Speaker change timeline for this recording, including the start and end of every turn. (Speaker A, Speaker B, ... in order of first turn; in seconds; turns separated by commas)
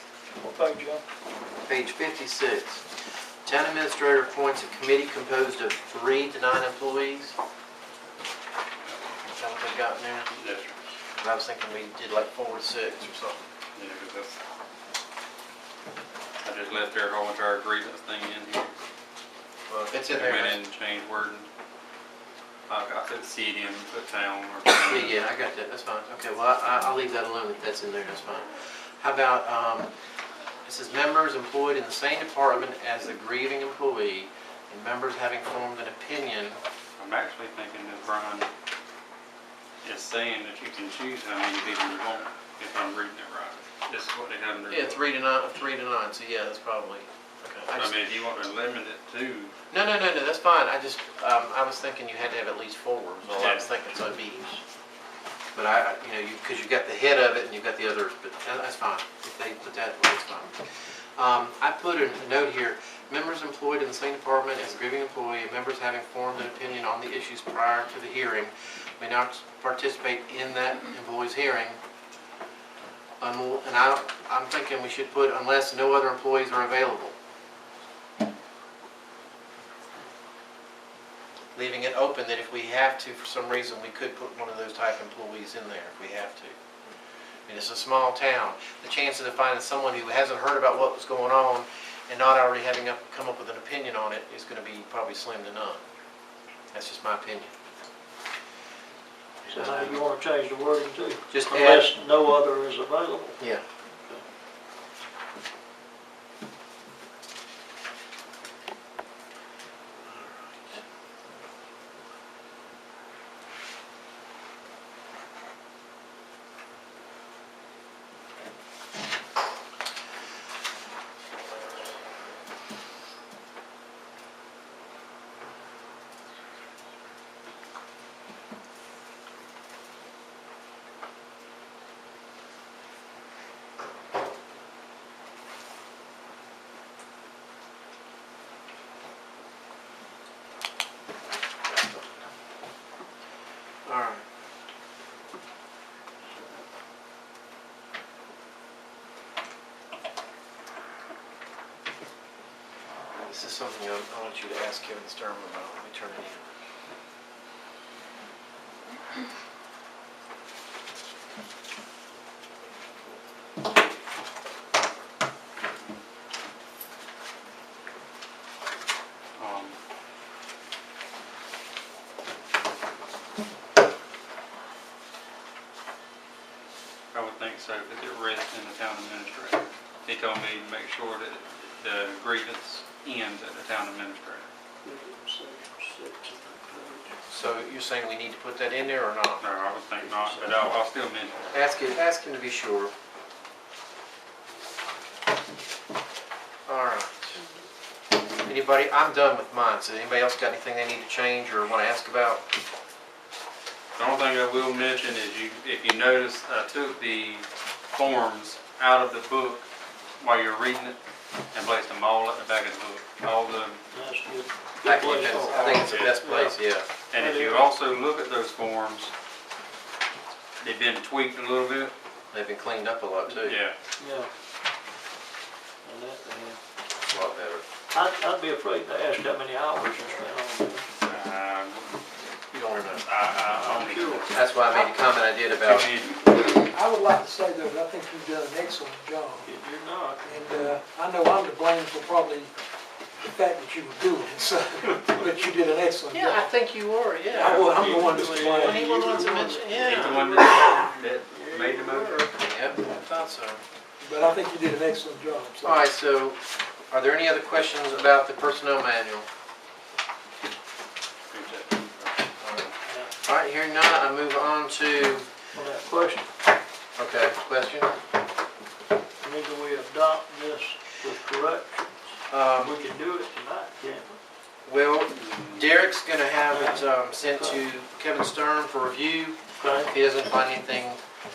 Speaker A: 0.4-1.0, Speaker B: 1.7-2.8, Speaker B: 3.4-7.3, Speaker B: 9.3-10.3, Speaker C: 10.3-10.7, Speaker B: 11.2-13.4, Speaker C: 13.8-14.3, Speaker C: 16.4-18.8, Speaker B: 19.7-20.6, Speaker C: 20.1-21.5, Speaker C: 22.7-25.2, Speaker B: 24.8-28.5, Speaker B: 29.0-29.9, Speaker B: 30.6-36.6, Speaker C: 37.0-38.5, Speaker C: 39.8-45.0, Speaker B: 44.7-48.0, Speaker C: 47.7-49.5, Speaker B: 49.7-54.5, Speaker C: 53.3-53.7, Speaker B: 55.5-60.5, Speaker B: 61.1-71.8, Speaker B: 73.2-77.1, Speaker B: 81.5-86.5, Speaker B: 87.5-95.8, Speaker B: 96.7-97.5, Speaker B: 99.4-100.0, Speaker A: 99.5-103.4, Speaker B: 101.3-101.8, Speaker B: 143.8-144.2, Speaker B: 153.2-156.5, Speaker C: 169.4-169.8, Speaker C: 177.1-184.5, Speaker A: 184.8-187.2, Speaker B: 187.3-189.4, Speaker C: 189.4-191.4, Speaker A: 190.1-190.4, Speaker B: 191.5-192.9, Speaker B: 196.7-197.4, Speaker B: 198.4-202.4, Speaker C: 203.9-209.7, Speaker C: 210.2-211.0, Speaker C: 211.5-213.8, Speaker A: 213.9-216.5, Speaker B: 214.8-216.9, Speaker C: 215.8-216.4, Speaker C: 217.1-219.1, Speaker A: 217.1-217.7, Speaker C: 220.6-221.9, Speaker B: 222.3-223.6, Speaker C: 223.3-223.7, Speaker A: 224.0-224.3, Speaker A: 225.8-226.6, Speaker B: 227.1-227.6, Speaker A: 227.9-230.9, Speaker C: 231.0-231.9, Speaker B: 232.5-233.1, Speaker C: 233.0-234.3, Speaker A: 233.6-234.5, Speaker B: 234.3-235.9, Speaker C: 235.6-236.6, Speaker D: 236.4-239.5, Speaker A: 239.4-240.3, Speaker D: 240.2-242.5, Speaker D: 243.2-246.6, Speaker B: 246.1-250.2, Speaker C: 247.3-247.6, Speaker D: 247.3-249.5, Speaker A: 247.4-252.3, Speaker C: 249.7-252.3, Speaker B: 252.4-253.6, Speaker D: 254.0-255.9, Speaker B: 255.6-256.4, Speaker B: 256.9-259.3, Speaker C: 261.3-262.2, Speaker B: 262.4-262.7, Speaker B: 263.2-265.3, Speaker A: 265.6-266.3, Speaker B: 266.9-267.9, Speaker A: 269.2-274.2, Speaker B: 272.3-272.7, Speaker B: 274.6-281.0, Speaker C: 275.1-275.7, Speaker A: 276.4-277.6, Speaker A: 279.6-279.9